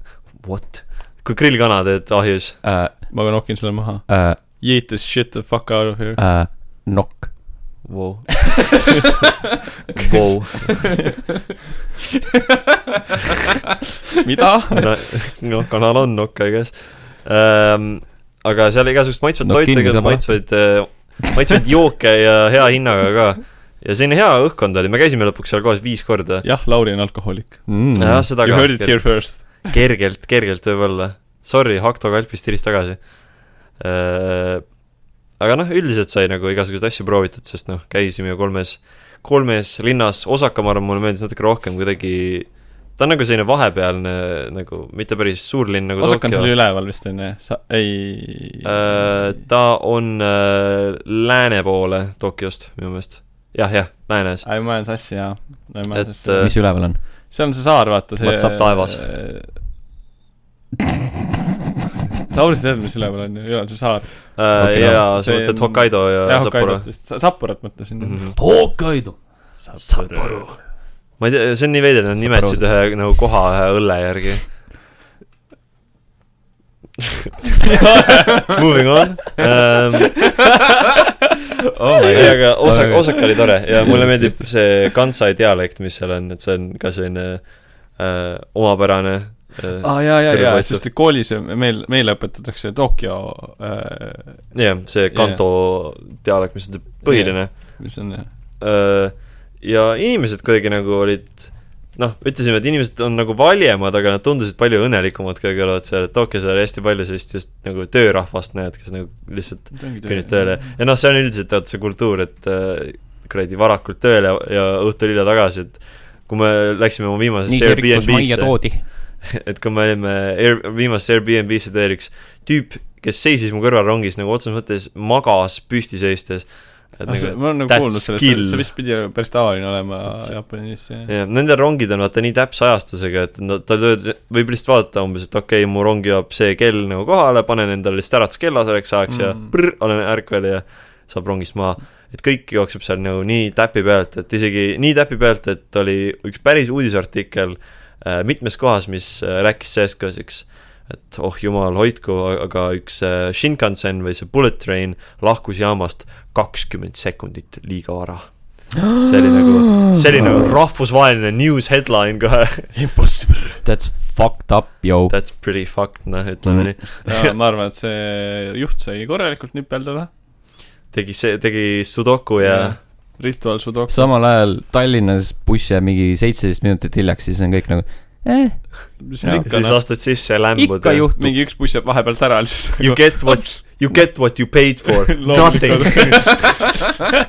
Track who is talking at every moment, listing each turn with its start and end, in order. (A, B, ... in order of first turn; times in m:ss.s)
0:00.3-0:02.6 A
0:02.6-0:03.1 B
0:03.1-0:06.2 C
0:04.1-0:04.4 B
0:06.2-0:07.7 B
0:07.8-0:08.9 A
0:10.0-0:11.0 A
0:14.2-0:15.2 C
0:14.7-0:26.4 A
0:19.4-0:20.6 B
0:26.4-0:27.8 C
0:27.7-0:28.3 B
0:28.0-0:33.1 A
0:28.4-0:29.8 C
0:33.8-0:34.7 A
0:35.4-0:46.5 A
0:46.0-0:49.3 C
0:48.6-0:54.5 A
0:54.4-0:59.5 C
0:55.9-0:56.6 A
0:56.4-0:57.0 B
0:58.2-0:59.1 A
1:02.3-1:04.5 C
1:04.4-1:06.9 A
1:04.6-1:05.1 B
1:05.2-1:08.3 C
1:08.0-1:08.4 A
1:08.4-1:09.2 B
1:09.6-1:10.5 C
1:09.9-1:10.6 A
1:11.2-1:14.6 A
1:12.2-1:12.7 B
1:17.7-1:18.6 C
1:18.1-1:20.3 A
1:21.8-1:24.5 B
1:22.0-1:22.3 C
1:22.1-1:30.8 A
1:29.8-1:34.5 C
1:34.5-1:37.8 A
1:35.1-1:35.4 C
1:37.0-1:38.3 C
1:38.6-2:08.7 A
1:49.7-1:50.8 C
1:57.5-1:58.9 B
2:07.1-2:11.1 C
2:11.1-2:43.0 A
2:19.1-2:19.5 C
2:43.6-2:45.2 B
2:45.1-2:47.3 A
2:46.4-2:46.7 B
2:47.0-2:50.1 C
2:50.9-2:52.8 A
2:52.4-2:54.1 C
2:53.9-2:59.5 B
2:59.0-2:59.8 C
2:59.3-3:01.1 A
3:00.6-3:01.4 B
3:01.2-3:04.0 C
3:02.8-3:06.7 A
3:04.8-3:06.6 C